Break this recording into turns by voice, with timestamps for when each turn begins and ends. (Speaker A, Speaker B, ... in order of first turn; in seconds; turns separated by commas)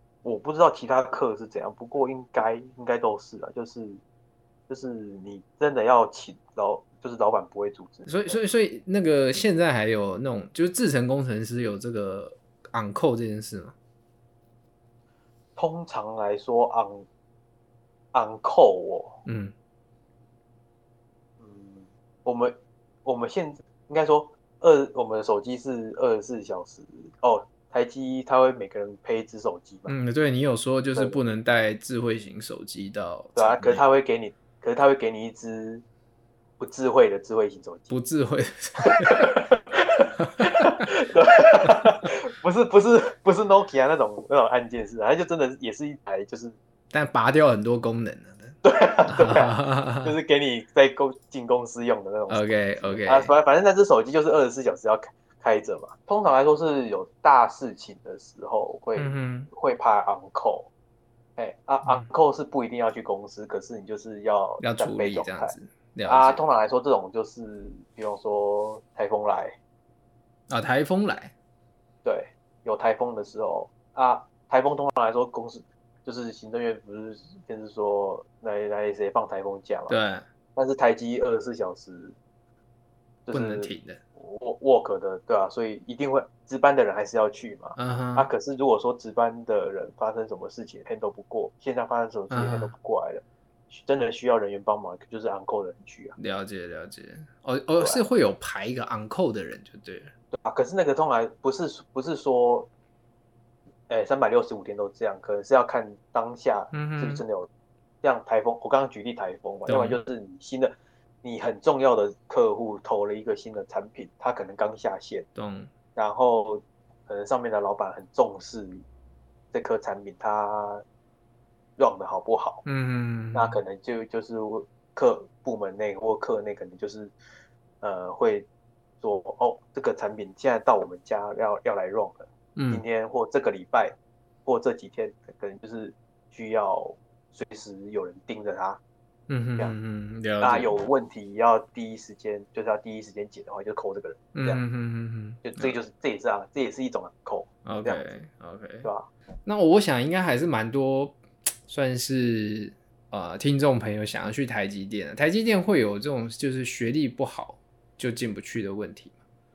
Speaker A: 0.2-4.0, Speaker A: 4.7-8.4, Speaker B: 8.1-13.7, Speaker A: 15.6-17.1, Speaker A: 18.1-19.2, Speaker B: 19.2-19.5, Speaker A: 21.4-29.9, Speaker B: 29.9-33.8, Speaker A: 33.4-35.8, Speaker A: 36.6-37.9, Speaker B: 37.9-39.3, Speaker A: 38.8-46.5, Speaker B: 40.2-40.7, Speaker B: 46.9-50.1, Speaker A: 48.6-60.7, Speaker B: 52.3-53.3, Speaker B: 59.0-59.5, Speaker A: 61.4-65.5, Speaker B: 64.6-66.4, Speaker A: 66.0-69.5, Speaker B: 70.5-71.3, Speaker A: 72.0-80.0, Speaker B: 79.9-80.2, Speaker A: 80.5-82.2, Speaker A: 83.2-96.2, Speaker B: 83.3-84.0, Speaker B: 87.8-88.3, Speaker B: 92.3-92.7, Speaker B: 96.2-100.1, Speaker A: 100.3-102.7, Speaker A: 103.9-107.5, Speaker B: 106.7-107.2, Speaker A: 108.0-115.3, Speaker B: 109.7-110.0, Speaker B: 115.3-115.7, Speaker A: 116.0-118.8, Speaker A: 119.5-120.8, Speaker A: 121.8-122.6, Speaker B: 122.6-123.6, Speaker A: 123.3-127.1, Speaker A: 127.8-128.5, Speaker A: 129.0-138.8, Speaker B: 132.6-132.8, Speaker B: 139.3-140.8, Speaker A: 140.4-144.6, Speaker B: 144.3-145.8, Speaker A: 145.4-148.1, Speaker B: 147.7-148.9, Speaker B: 149.4-159.1